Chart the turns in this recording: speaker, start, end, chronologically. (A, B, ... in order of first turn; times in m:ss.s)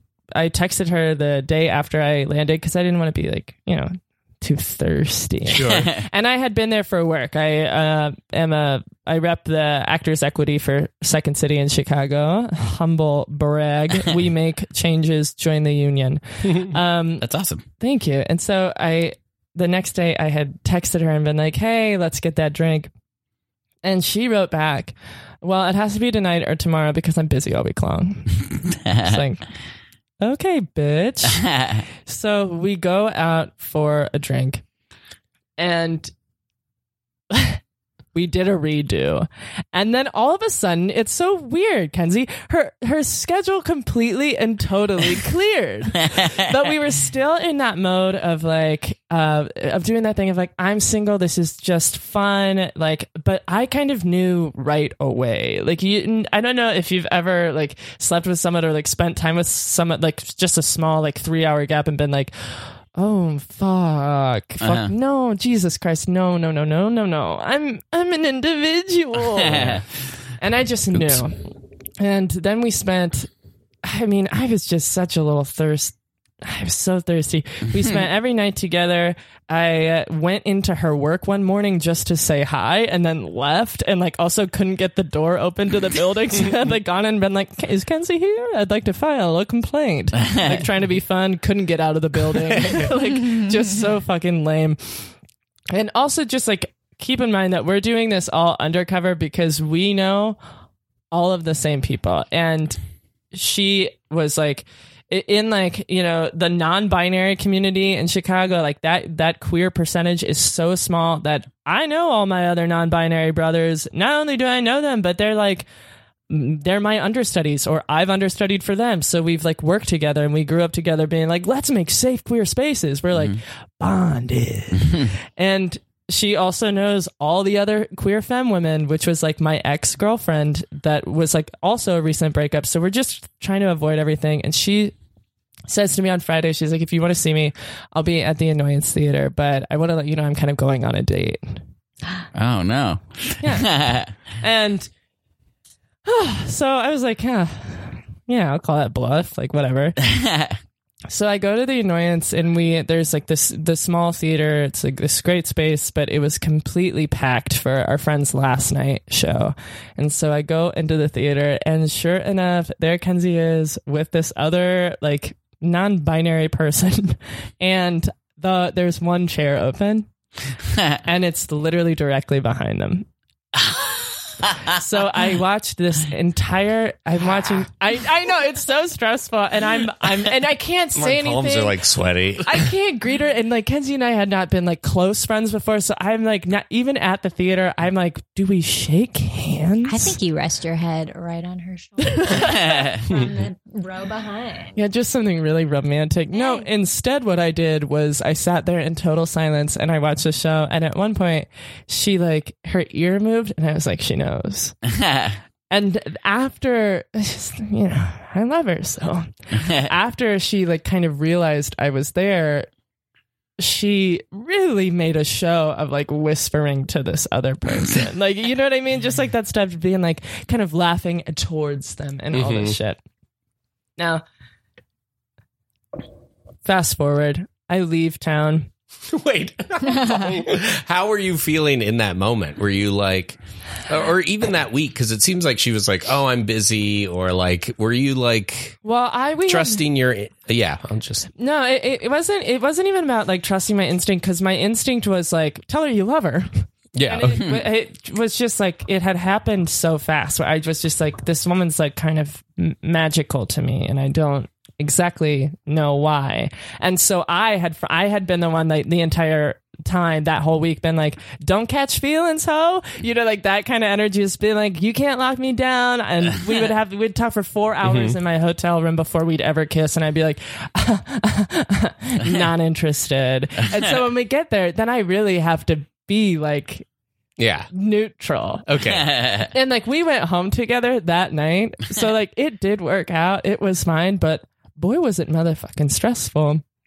0:00.3-0:17.2 A
0:05.5-0:05.9 B
0:17.2-0:17.6 C
0:17.8-0:22.9 A
0:23.8-0:29.4 A
0:30.2-0:34.6 A
0:31.5-0:31.8 C
0:35.6-0:36.1 A
0:37.3-0:37.6 A
0:38.1-1:09.8 A
1:04.6-1:04.9 C
1:09.4-1:09.8 C
1:10.4-1:11.4 A
1:12.0-1:13.3 A
1:13.8-1:35.0 A
1:35.7-1:40.4 A
1:41.1-1:42.8 A
1:43.3-1:55.7 A
1:56.3-2:14.9 A
2:04.8-2:05.1 C
2:15.7-2:21.6 A
2:22.3-2:24.1 C
2:23.4-2:23.8 A
2:24.3-2:24.9 A
2:26.0-2:30.0 A
2:30.1-2:30.6 C
2:31.1-2:50.1 A
2:51.0-2:53.1 A
2:54.6-3:01.8 A
3:01.0-3:02.6 B
3:02.4-3:10.2 A
3:09.9-3:14.8 D
3:12.1-3:12.6 A
3:12.4-3:13.0 C
3:14.8-3:24.8 A
3:16.3-3:16.7 D
3:24.9-3:25.4 C
3:25.7-3:32.7 A
3:29.6-3:29.9 C
3:33.6-3:43.0 A
3:42.3-3:42.8 B
3:44.0-3:44.2 A
3:46.6-3:48.7 A
3:49.1-3:58.8 B
3:58.8-3:59.8 A
3:59.5-4:01.3 B
4:01.4-4:36.8 A
4:07.0-4:07.5 B
4:07.3-4:07.6 C
4:27.8-4:28.2 B
4:37.4-4:37.7 B
4:37.7-4:38.7 A
4:38.7-4:39.1 B
4:38.9-4:39.5 C
4:39.4-4:46.6 A